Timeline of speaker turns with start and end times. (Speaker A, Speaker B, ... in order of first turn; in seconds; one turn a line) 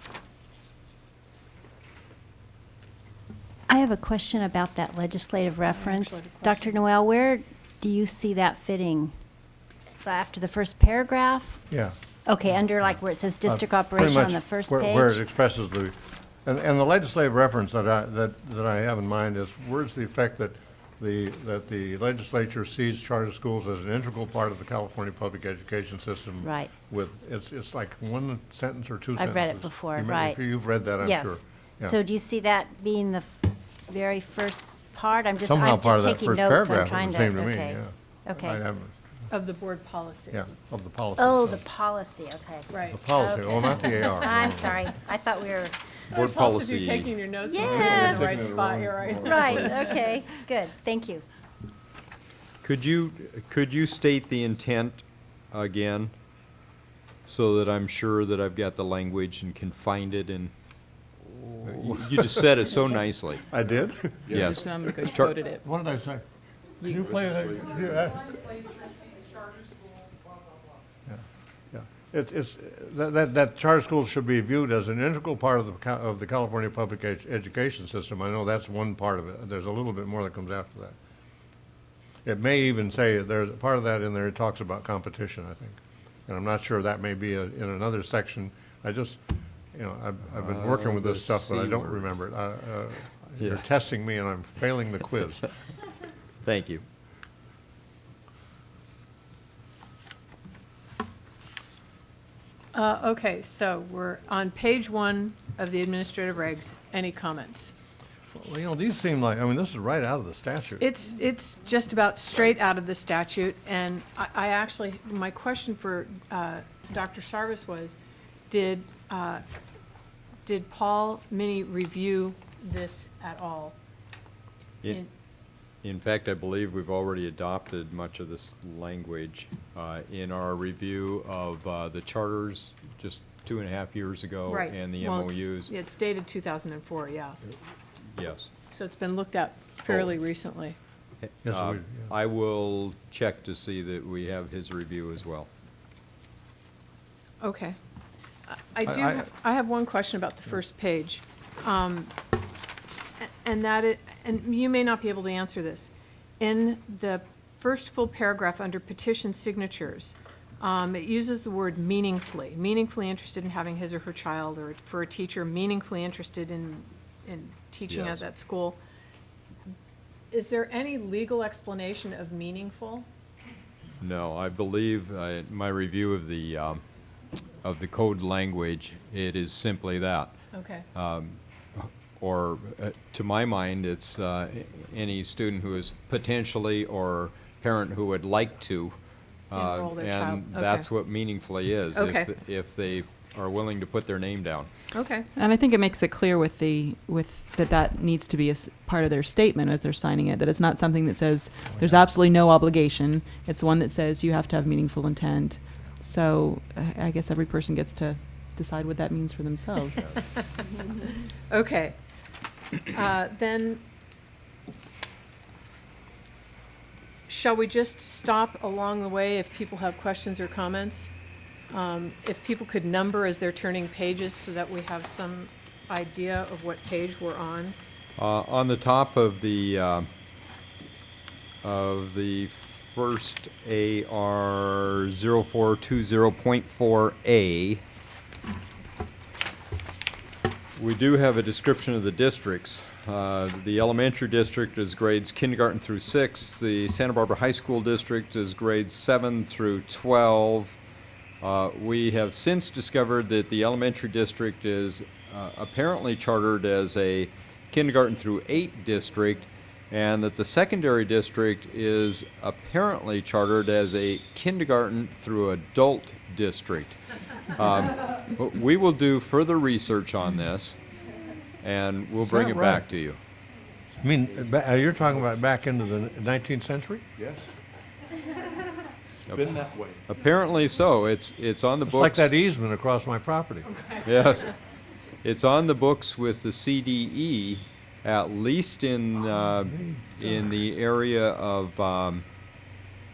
Speaker A: 3.7-9.1
Speaker B: 5.7-6.8
Speaker A: 10.0-11.6
Speaker C: 11.7-11.9
Speaker A: 12.2-15.2
Speaker C: 12.5-32.0
Speaker A: 26.4-26.7
Speaker A: 29.2-30.4
Speaker A: 31.0-38.6
Speaker C: 35.4-38.9
Speaker B: 39.3-40.5
Speaker C: 40.3-41.6
Speaker A: 41.2-45.8
Speaker B: 42.7-43.0
Speaker C: 42.9-44.9
Speaker B: 46.1-49.9
Speaker D: 46.1-47.1
Speaker A: 47.5-48.3
Speaker E: 47.6-50.0
Speaker A: 49.2-51.2
Speaker D: 52.6-56.1
Speaker D: 57.2-60.5
Speaker D: 61.6-63.5
Speaker C: 61.6-62.5
Speaker C: 63.5-64.6
Speaker E: 64.3-64.5
Speaker D: 64.3-65.3
Speaker F: 64.4-65.6
Speaker C: 65.6-66.2
Speaker C: 66.8-68.7
Speaker E: 67.1-67.7
Speaker C: 71.1-80.9
Speaker C: 82.2-89.2
Speaker C: 89.7-95.5
Speaker D: 90.3-92.1
Speaker D: 93.4-93.6
Speaker D: 96.4-96.8
Speaker B: 102.7-107.7
Speaker C: 108.3-110.8
Speaker B: 110.8-118.0
Speaker B: 118.5-119.4
Speaker B: 120.4-123.8
Speaker D: 125.8-135.7
Speaker B: 134.5-137.4
Speaker D: 138.1-138.5
Speaker B: 138.7-140.8
Speaker D: 141.2-145.5
Speaker C: 141.4-142.1
Speaker B: 147.4-147.8
Speaker B: 148.5-152.1
Speaker C: 148.9-149.2
Speaker B: 153.2-168.8
Speaker D: 167.9-168.2
Speaker B: 170.3-173.1
Speaker D: 174.0-176.8
Speaker D: 177.6-180.3
Speaker B: 180.5-180.8
Speaker D: 180.9-188.9
Speaker D: 189.5-194.7
Speaker B: 189.5-190.9
Speaker B: 191.9-192.3
Speaker B: 194.9-195.3
Speaker F: 195.3-210.1
Speaker B: 210.6-211.9
Speaker B: 212.9-213.8
Speaker B: 217.3-221.1
Speaker B: 221.7-227.8
Speaker D: 228.2-230.1
Speaker D: 231.6-237.8
Speaker D: 240.8-250.8
Speaker D: 251.4-267.0
Speaker D: 267.5-270.8
Speaker D: 271.6-273.2
Speaker C: 272.2-272.8
Speaker C: 274.0-277.0
Speaker E: 277.2-277.5
Speaker E: 279.3-280.0
Speaker D: 279.3-282.3
Speaker C: 281.9-283.8
Speaker D: 284.0-284.5
Speaker D: 285.2-292.2
Speaker C: 289.6-290.5